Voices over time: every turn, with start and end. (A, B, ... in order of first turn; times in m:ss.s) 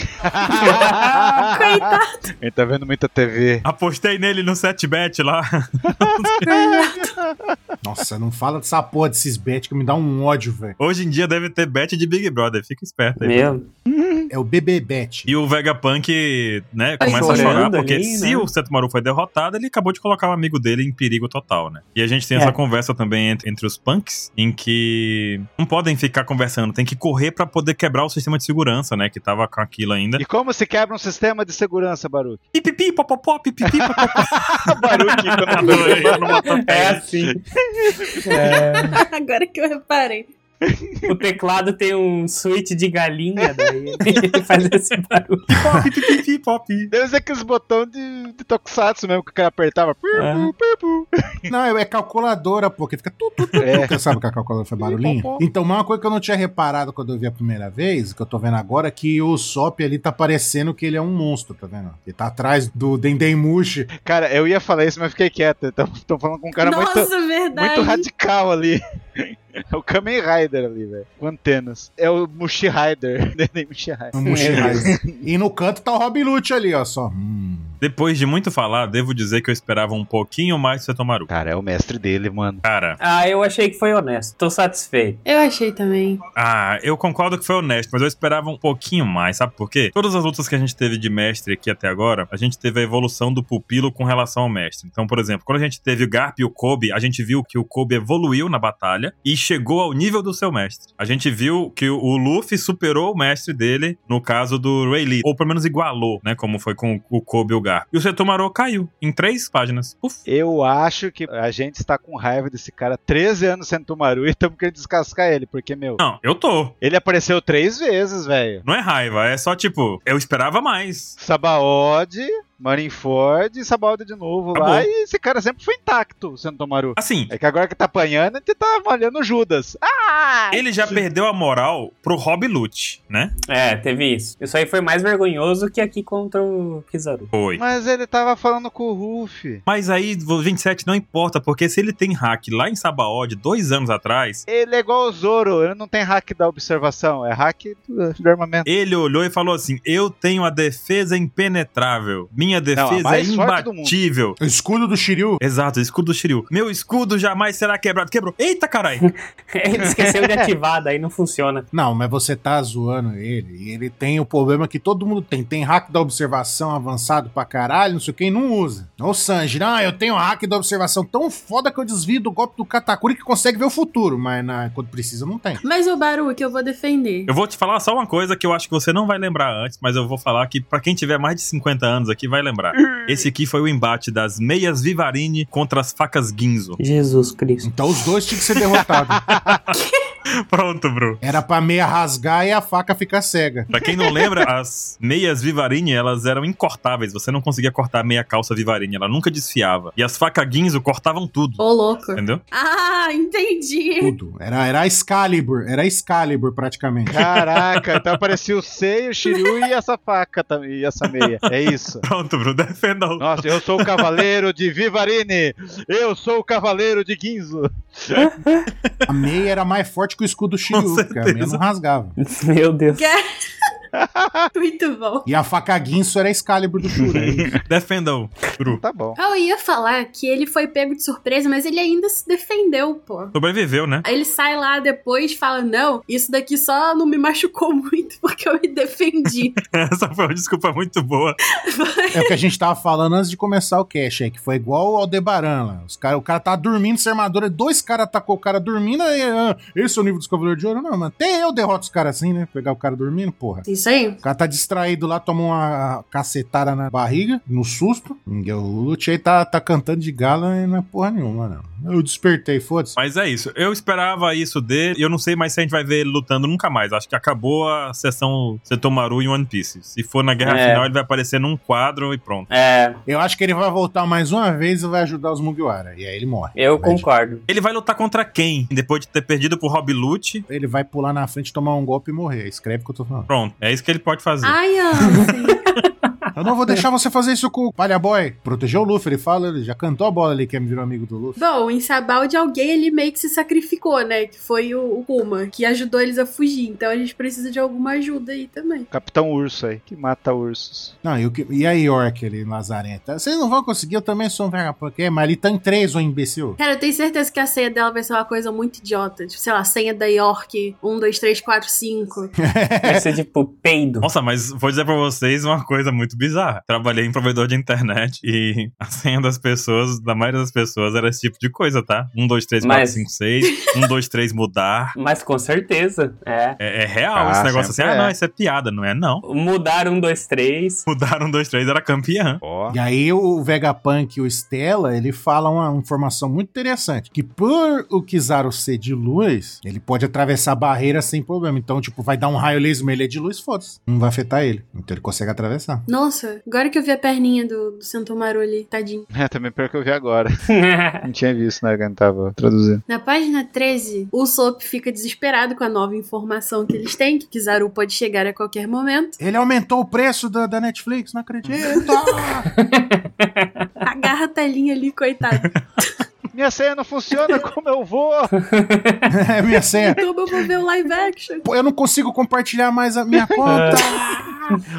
0:00.2-0:03.6 A
0:00.6-0:02.3 B
0:00.6-0:01.0 C
0:03.6-0:06.4 D
0:06.0-0:07.5 A
0:06.5-0:07.2 B
0:07.8-0:10.8 E
0:10.8-0:13.5 D
0:13.2-0:13.7 C
0:13.9-0:14.3 A
0:14.3-0:15.3 E
0:15.3-0:30.2 D
0:17.0-0:17.7 B
0:17.0-0:18.5 C
0:30.2-0:32.4 A
0:32.5-0:37.0 D
0:33.8-0:36.4 A
0:35.7-0:37.4 C
0:37.2-0:38.2 A
0:38.2-0:39.0 C
0:38.3-0:40.3 B
0:40.7-0:41.1 A
0:41.1-0:45.5 C
0:45.5-0:46.9 D
0:46.9-0:51.5 A
0:50.1-0:50.5 C
0:51.5-1:03.9 E
0:53.6-0:54.0 A
0:54.8-0:55.4 A
1:04.0-1:15.0 A
1:06.6-1:08.0 B
1:14.1-1:17.8 E
1:14.2-1:14.9 C
1:17.8-1:21.3 D
1:21.3-1:22.6 A
1:22.6-1:23.0 D
1:23.0-1:25.2 C
1:25.2-1:26.2 B
1:26.4-1:50.2 D
1:50.3-1:56.0 A
1:56.0-1:56.7 D
1:56.8-1:58.6 A
1:58.6-2:01.2 D
2:01.2-2:11.0 A
2:04.5-2:04.9 D
2:07.0-2:07.3 D
2:10.5-2:13.3 D
2:13.5-2:17.3 C
2:17.3-2:17.6 D
2:17.6-2:19.6 A
2:19.6-2:24.4 D
2:24.5-2:28.7 A
2:28.6-2:34.4 D
2:32.8-2:33.9 A
2:34.4-2:35.4 E
2:35.4-2:39.1 D
2:39.0-2:41.6 C
2:39.8-2:40.4 A
2:41.7-2:55.6 E
2:55.6-2:57.3 B
2:57.3-3:06.8 D
3:02.8-3:03.2 A
3:06.8-3:07.7 C
3:07.6-3:09.2 E
3:09.1-3:09.6 A
3:09.7-3:10.0 B
3:10.5-3:11.2 D
3:11.2-3:13.7 E
3:13.7-3:21.6 D
3:21.6-3:24.1 B
3:22.1-3:22.4 D
3:24.0-3:27.2 E
3:27.1-3:32.0 A
3:27.3-3:28.2 D
3:31.2-3:34.2 D
3:33.2-3:38.3 A
3:38.2-3:38.6 C
3:39.1-3:42.2 E
3:40.7-3:41.6 D
3:42.2-3:43.1 C
3:42.9-3:43.2 B
3:43.9-3:44.5 A
3:44.5-3:45.3 B
3:45.2-3:47.6 E
3:47.0-3:47.6 A
3:47.6-3:48.8 D
3:48.7-3:49.2 A
3:49.2-3:53.4 B
3:53.3-3:54.0 D
3:54.0-3:59.6 B
3:59.6-4:01.4 D
4:01.6-4:02.3 B
4:02.1-4:13.6 E
4:13.6-4:14.2 B
4:14.2-4:23.0 E
4:23.0-4:32.5 D
4:30.4-4:30.9 C
4:32.5-4:33.0 C
4:33.0-4:37.0 E
4:36.6-4:37.4 C
4:37.5-4:40.4 D
4:40.5-4:43.3 E
4:43.3-4:44.6 D
4:44.4-4:45.7 B
4:46.3-4:51.4 E
4:51.4-4:58.9 B
4:58.9-5:01.0 A
5:01.0-5:06.6 E
5:06.6-5:12.3 B
5:12.4-5:13.1 E
5:12.8-5:14.1 C
5:14.0-5:24.9 D
5:22.6-5:23.0 C
5:24.9-5:26.6 C
5:26.6-5:29.2 D
5:27.1-5:28.1 A
5:29.2-5:30.8 C
5:30.8-5:32.4 D
5:32.4-5:32.8 A
5:32.7-5:45.8 E
5:45.9-5:49.0 B
5:49.1-5:50.3 A
5:50.5-5:51.0 C
5:51.0-5:52.8 A
5:52.9-5:59.2 B
5:59.2-6:02.5 E
6:02.6-6:03.7 C
6:03.8-6:06.0 B
6:05.3-6:05.6 D
6:06.3-6:08.3 A
6:08.4-6:09.1 C
6:09.1-6:10.0 E
6:09.8-6:11.5 B
6:11.4-6:14.5 E
6:13.4-6:13.8 C